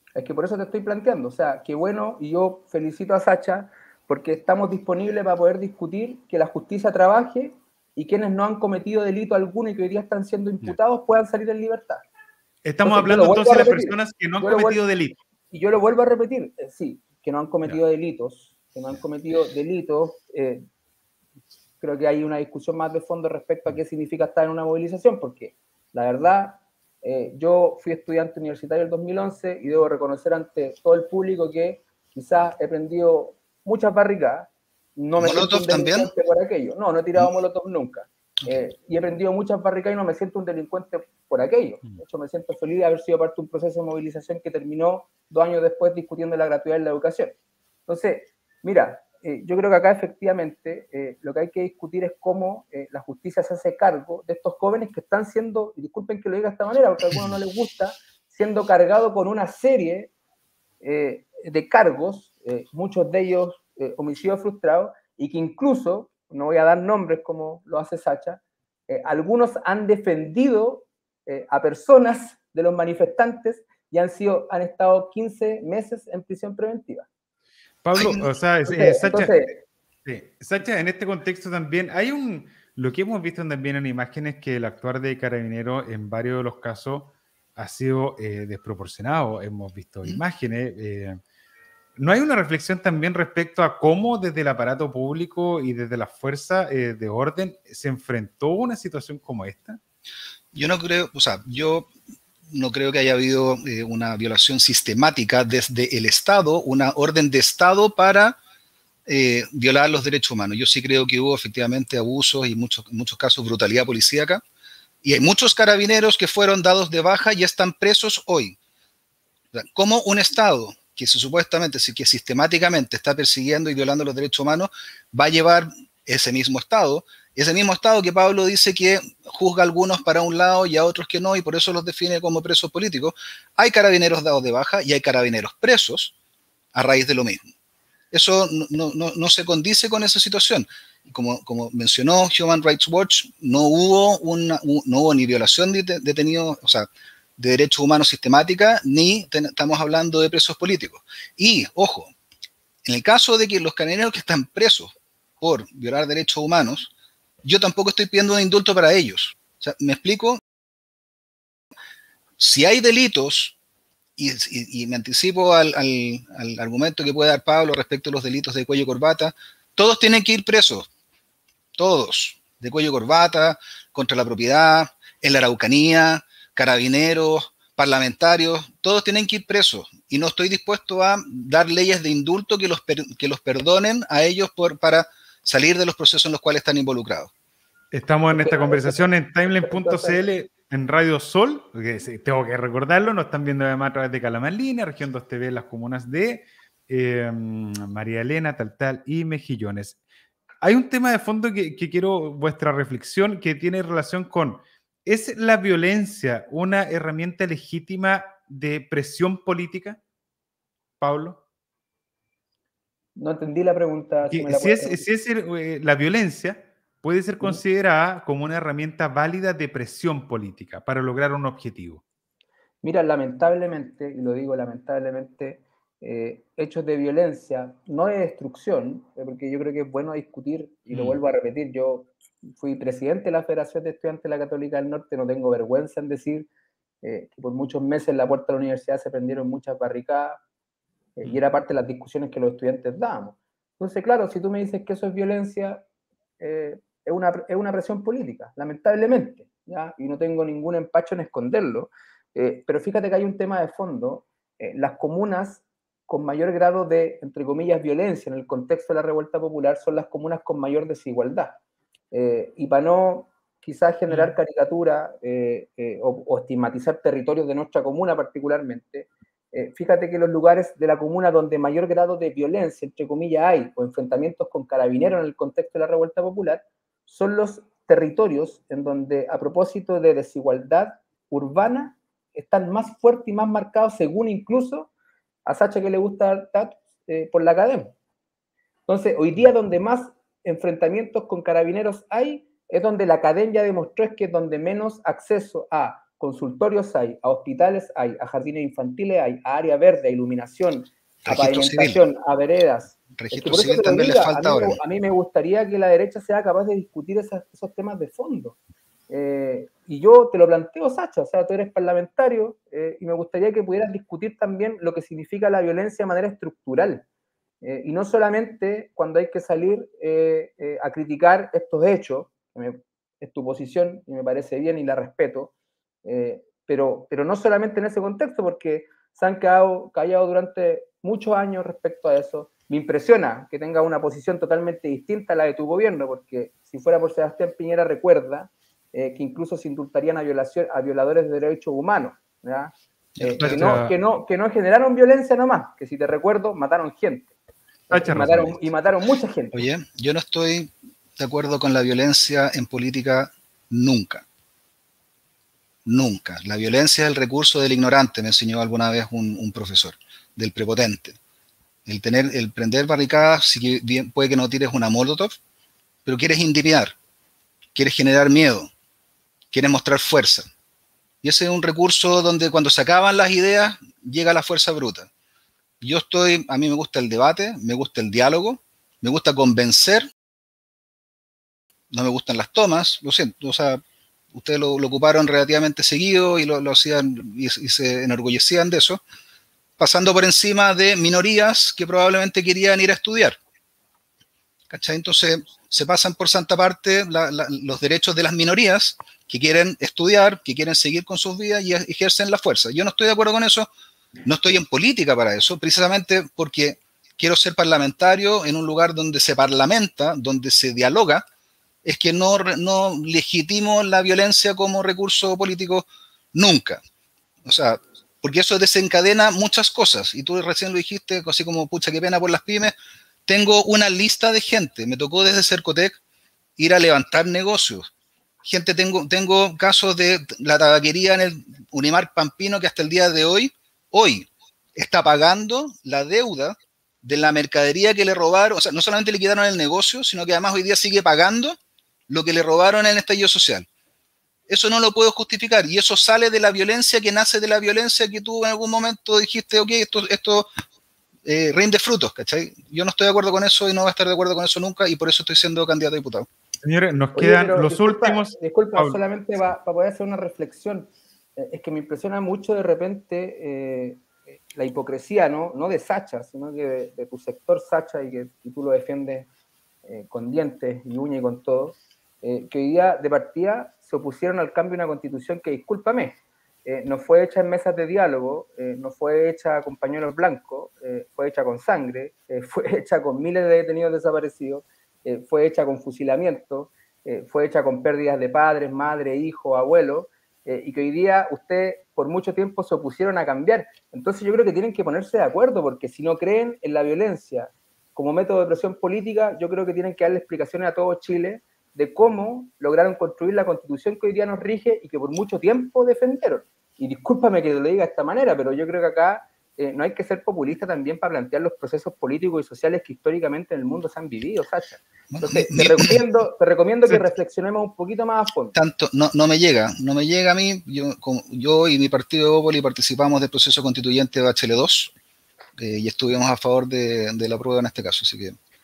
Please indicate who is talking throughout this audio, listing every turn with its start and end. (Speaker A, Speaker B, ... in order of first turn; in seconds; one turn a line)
Speaker A: 0.1-12.1
Speaker B: 12.6-15.2
Speaker A: 12.8-14.8
Speaker A: 15.5-20.6
Speaker A: 21.8-47.3
Speaker C: 35.2-36.1
Speaker A: 47.9-60.1
Speaker A: 60.8-77.1
Speaker B: 77.8-79.4
Speaker A: 78.0-79.5
Speaker B: 80.0-91.2
Speaker B: 92.0-99.8
Speaker C: 100.5-101.9
Speaker C: 102.5-108.4
Speaker C: 109.0-114.4
Speaker C: 115.0-118.6
Speaker C: 119.5-136.1
Speaker C: 136.7-137.4
Speaker C: 138.1-152.1
Speaker C: 152.8-156.9
Speaker C: 157.4-160.4
Speaker C: 162.4-163.6
Speaker C: 164.2-170.9
Speaker C: 171.8-187.3
Speaker B: 187.9-200.0
Speaker A: 188.3-190.2
Speaker B: 200.6-210.0
Speaker B: 211.0-211.4
Speaker A: 213.2-215.0
Speaker B: 214.3-222.0
Speaker A: 222.8-236.5
Speaker A: 237.0-240.4
Speaker A: 241.2-245.8
Speaker A: 246.4-261.6
Speaker A: 262.1-284.9
Speaker B: 264.1-264.3
Speaker A: 285.4-287.9
Speaker A: 288.9-308.6
Speaker C: 301.2-302.0
Speaker C: 303.1-304.8
Speaker A: 309.1-317.0
Speaker A: 317.6-325.5
Speaker A: 326.0-347.3
Speaker B: 343.2-343.9
Speaker A: 347.9-349.6
Speaker B: 347.9-348.6
Speaker C: 349.5-354.2
Speaker C: 355.9-361.2
Speaker C: 361.9-365.4
Speaker C: 366.1-366.9
Speaker C: 367.7-368.7
Speaker C: 369.5-370.5
Speaker C: 371.2-375.1
Speaker C: 375.8-380.1
Speaker C: 381.9-383.8
Speaker C: 384.3-389.0
Speaker C: 389.8-393.4
Speaker C: 394.7-403.7
Speaker C: 404.2-411.2
Speaker C: 411.8-416.8
Speaker C: 417.4-422.7
Speaker C: 423.2-426.0
Speaker C: 426.6-427.9
Speaker C: 428.4-441.6
Speaker C: 442.1-443.7
Speaker C: 444.5-450.5
Speaker C: 451.2-456.3
Speaker B: 456.6-459.0
Speaker A: 457.1-469.3
Speaker A: 469.8-518.5
Speaker C: 515.1-516.0
Speaker C: 518.5-524.9
Speaker C: 525.6-528.4